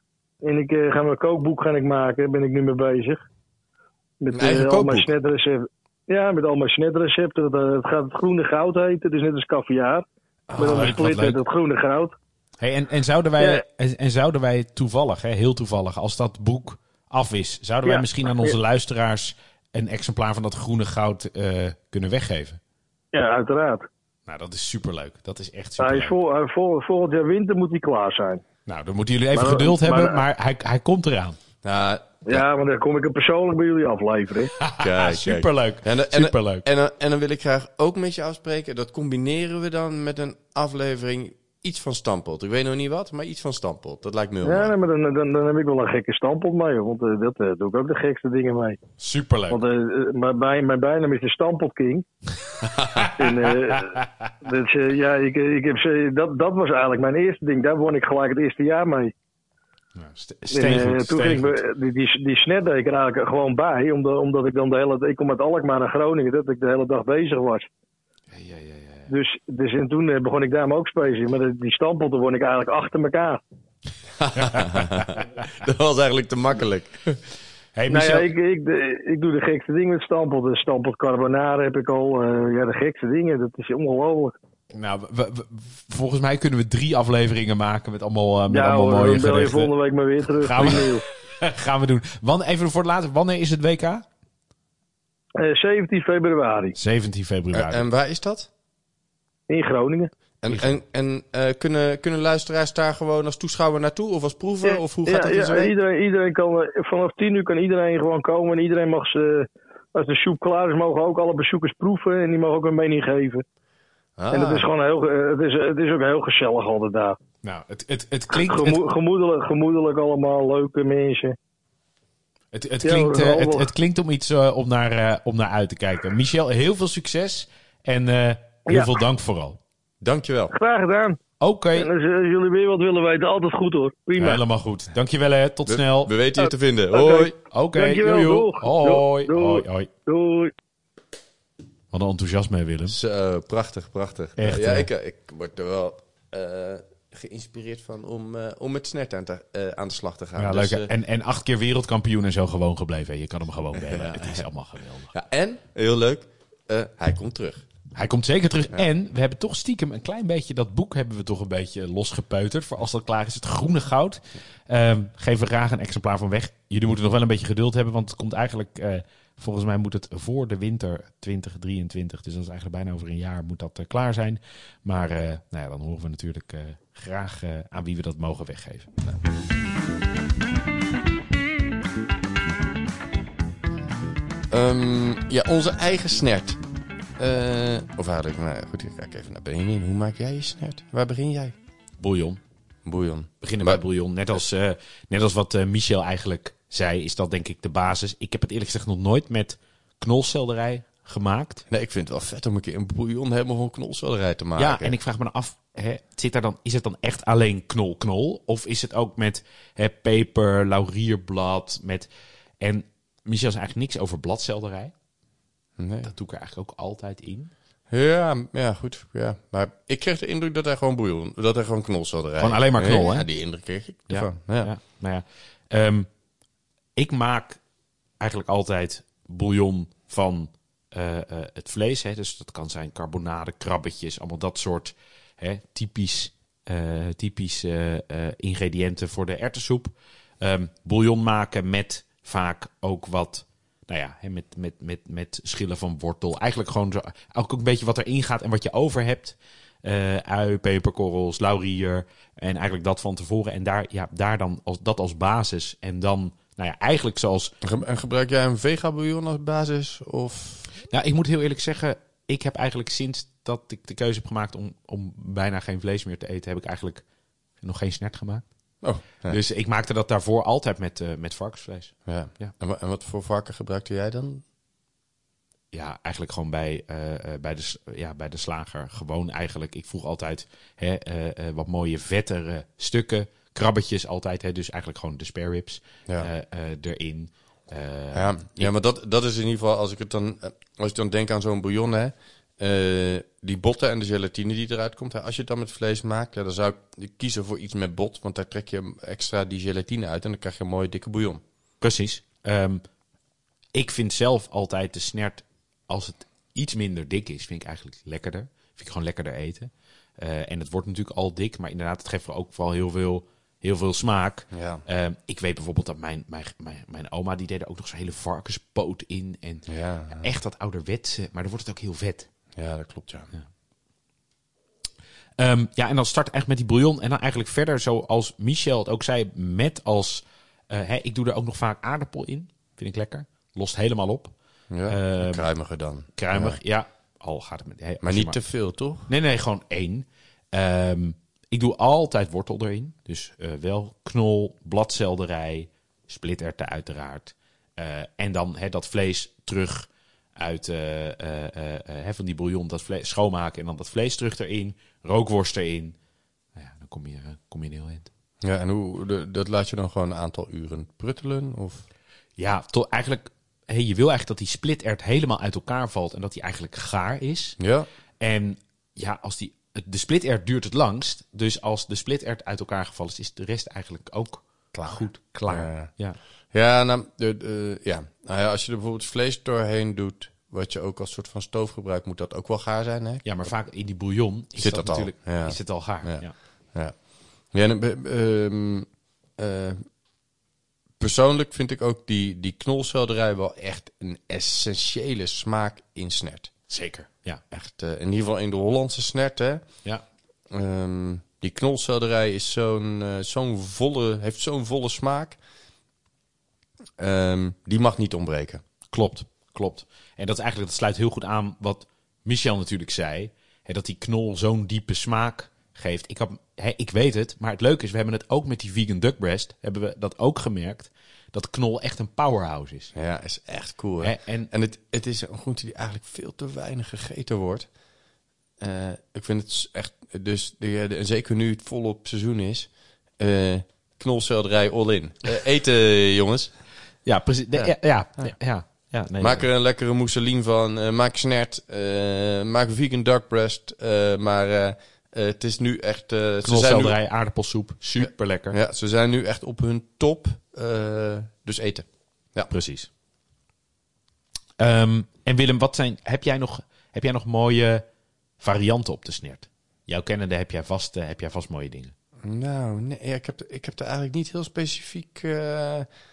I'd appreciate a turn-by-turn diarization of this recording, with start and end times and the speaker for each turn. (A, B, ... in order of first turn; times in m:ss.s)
0:00.4-0:03.2 A
0:04.2-0:10.0 A
0:04.3-0:05.1 B
0:10.5-0:11.0 B
0:10.6-0:12.2 A
0:10.6-0:11.4 C
0:12.6-0:22.6 C
0:17.9-0:18.6 A
0:23.1-0:23.9 A
0:24.3-0:26.2 C
0:25.8-0:28.4 A
0:28.7-0:31.4 C
0:29.3-0:30.2 A
0:31.6-0:32.4 B
0:32.3-0:34.5 A
0:34.6-0:36.7 C
0:34.8-0:44.7 B
0:44.4-0:48.8 A
0:49.0-0:49.6 C
0:49.5-0:52.0 A
0:52.8-0:54.3 C
0:52.8-0:53.1 B
0:53.2-0:59.1 A
1:00.0-1:01.6 C
1:00.5-1:07.7 A
1:08.3-1:09.1 C
1:09.1-1:13.4 A
1:14.2-1:17.2 B
1:14.4-1:14.9 C
1:17.8-1:18.3 C
1:17.9-1:24.3 A
1:24.7-1:29.7 C
1:28.5-1:31.0 A
1:30.3-1:34.0 C
1:35.4-1:36.8 A
1:36.8-1:37.8 C
1:37.5-1:38.5 B
1:39.5-1:40.1 A
1:40.4-1:45.7 B
1:40.5-1:40.8 C
1:44.7-1:53.4 A
1:54.2-1:54.7 B
1:54.3-1:57.2 A
1:57.4-1:58.8 C
1:58.3-2:01.4 A
2:02.5-2:09.6 C
2:02.8-2:03.7 A
2:08.7-2:08.9 A
2:10.0-2:10.5 B
2:10.5-2:11.2 A
2:11.4-2:11.9 C
2:11.8-2:14.4 A
2:14.2-2:16.1 C
2:15.7-2:17.4 B
2:16.4-2:20.5 A
2:17.5-2:19.9 C
2:21.9-2:23.0 C
2:22.9-2:30.9 B
2:24.4-2:24.9 C
2:30.4-2:35.1 C
2:33.7-2:34.4 B
2:35.1-2:37.6 B
2:38.0-2:59.0 C
3:04.5-3:06.6 B
3:07.2-3:11.6 B
3:12.0-3:12.4 C
3:12.8-3:13.8 B
3:13.4-3:21.6 C
3:21.7-3:24.9 B
3:24.6-3:32.1 C
3:32.6-3:34.9 C
3:35.8-3:36.1 B
3:36.0-3:37.5 C
3:37.9-3:44.7 B
3:42.4-3:43.3 C
3:44.1-3:46.1 C
3:47.0-3:47.6 C
3:48.2-4:17.6 C
4:17.6-4:20.7 B
4:20.9-4:27.0 C
4:27.6-4:28.4 C
4:28.8-4:29.4 B
4:29.3-4:32.5 C
4:32.1-4:34.4 B
4:35.7-4:48.7 C
4:48.1-5:01.4 B
5:01.8-5:02.8 C
5:03.8-5:22.3 C
5:14.5-5:14.8 B
5:19.7-5:20.2 B
5:22.6-5:23.3 B
5:25.4-5:34.4 C
5:34.7-5:36.6 B
5:34.9-5:35.5 C
5:36.1-5:38.4 C
5:38.0-5:39.1 B
5:39.1-5:56.0 C
5:56.6-5:58.1 C
5:58.4-6:01.9 B
6:02.4-6:07.6 C
6:07.6-6:07.9 B
6:08.2-6:16.2 C
6:14.7-6:15.9 B
6:16.5-6:23.3 B
6:23.2-6:26.4 C
6:24.6-6:29.8 B
6:31.0-6:36.5 B
6:36.7-6:37.4 C
6:37.5-6:39.6 B
6:40.5-6:45.4 B
6:47.0-6:48.6 B
6:48.9-7:02.9 C
7:03.0-7:07.7 B
7:04.0-7:04.5 C
7:08.6-7:16.6 B
7:17.0-7:19.5 C
7:17.6-7:18.4 B
7:19.2-7:27.0 B
7:26.4-7:28.6 C
7:28.0-7:32.5 B
7:32.5-7:32.9 C
7:34.6-7:37.8 C
7:38.4-7:41.9 C
7:42.2-7:45.9 B